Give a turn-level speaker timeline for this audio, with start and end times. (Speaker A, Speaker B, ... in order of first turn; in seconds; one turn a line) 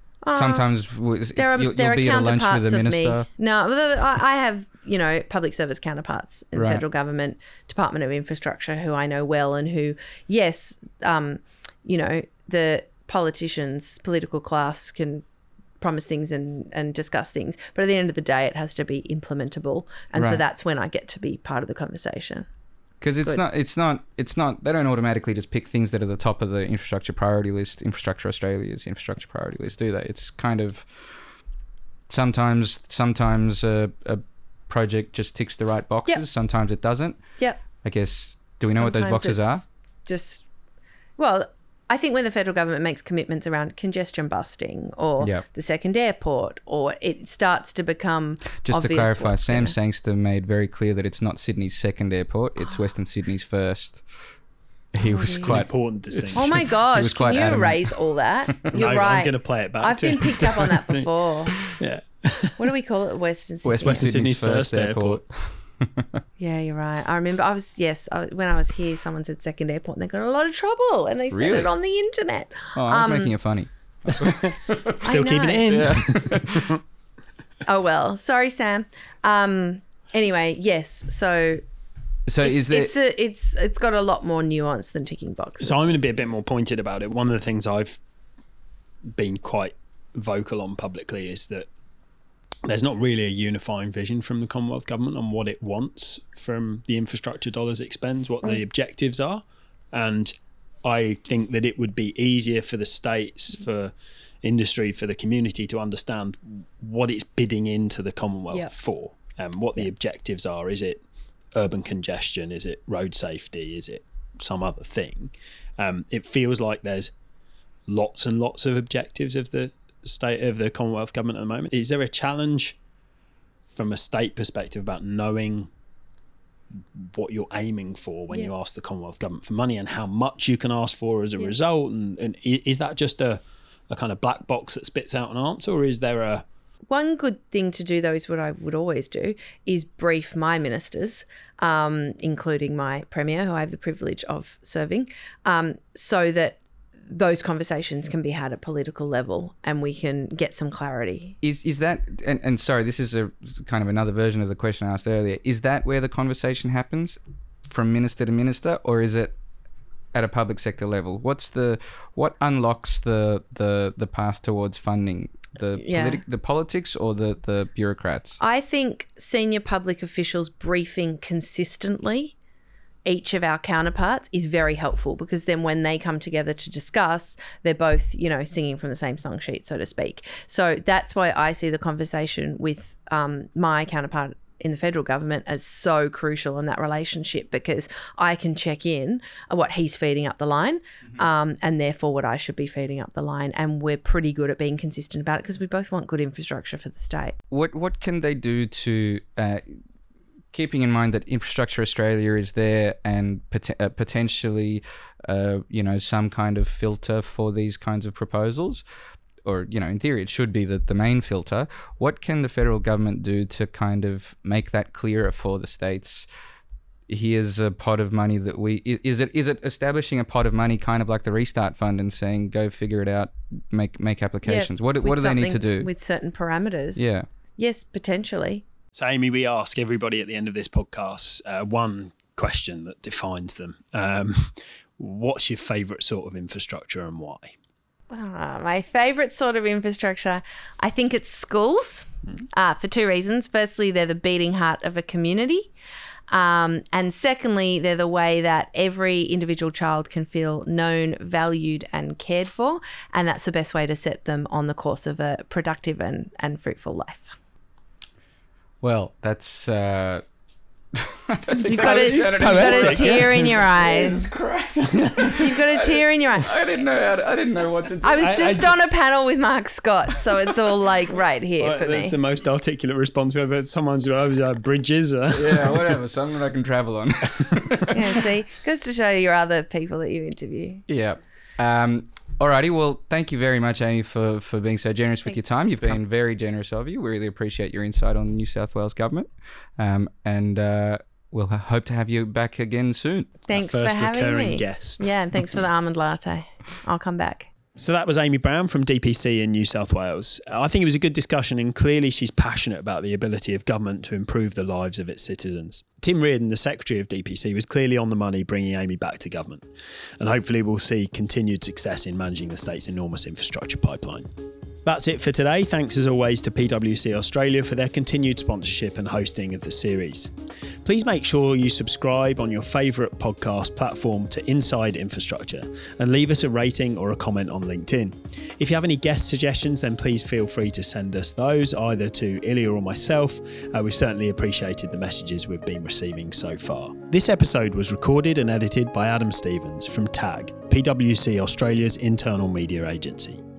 Speaker A: 0.2-0.7
Speaker B: 0.3-3.3
Speaker A: 1.4-15.2
Speaker B: 6.5-6.8
Speaker A: 15.8-22.4
Speaker B: 20.1-20.4
Speaker B: 23.0-31.0
Speaker B: 32.1-37.2
Speaker B: 37.8-39.6
Speaker A: 38.7-40.5
Speaker A: 41.2-49.7
Speaker B: 48.6-54.0
Speaker B: 55.0-57.9
Speaker A: 55.0-55.8
Speaker C: 55.4-56.5
Speaker A: 56.3-61.7
Speaker C: 58.7-61.1
Speaker C: 61.6-62.7
Speaker A: 62.6-64.1
Speaker B: 63.6-66.1
Speaker C: 63.8-65.2
Speaker A: 66.4-73.3
Speaker B: 71.3-71.7
Speaker B: 72.7-75.0
Speaker C: 74.2-76.8
Speaker A: 75.0-75.8
Speaker B: 75.7-76.7
Speaker A: 77.7-81.6
Speaker B: 82.2-82.9
Speaker A: 82.4-86.0
Speaker C: 85.6-88.0
Speaker C: 89.2-91.7
Speaker C: 92.6-111.0
Speaker C: 111.5-117.1
Speaker C: 117.9-122.8
Speaker C: 123.7-125.7
Speaker C: 126.7-136.4
Speaker A: 136.9-151.4
Speaker B: 151.4-159.3
Speaker B: 160.1-168.4
Speaker A: 165.8-166.2
Speaker A: 168.4-172.3
Speaker A: 173.1-197.3
Speaker B: 197.5-199.6
Speaker B: 200.5-208.8
Speaker B: 209.4-216.3
Speaker B: 217.1-225.9
Speaker A: 224.4-228.6
Speaker B: 226.9-227.2
Speaker C: 228.9-237.5
Speaker A: 238.1-245.7
Speaker A: 246.3-257.4
Speaker B: 258.8-260.2
Speaker B: 260.9-268.4
Speaker A: 261.6-264.2
Speaker C: 261.7-263.6
Speaker A: 265.2-266.5
Speaker A: 268.0-272.1
Speaker C: 268.2-268.7
Speaker C: 271.6-276.0
Speaker B: 275.3-277.9
Speaker A: 277.9-280.8
Speaker B: 280.9-293.3
Speaker A: 293.5-297.5
Speaker C: 293.5-295.6
Speaker C: 297.8-309.6
Speaker C: 310.2-314.3
Speaker C: 314.8-320.3
Speaker C: 320.8-343.4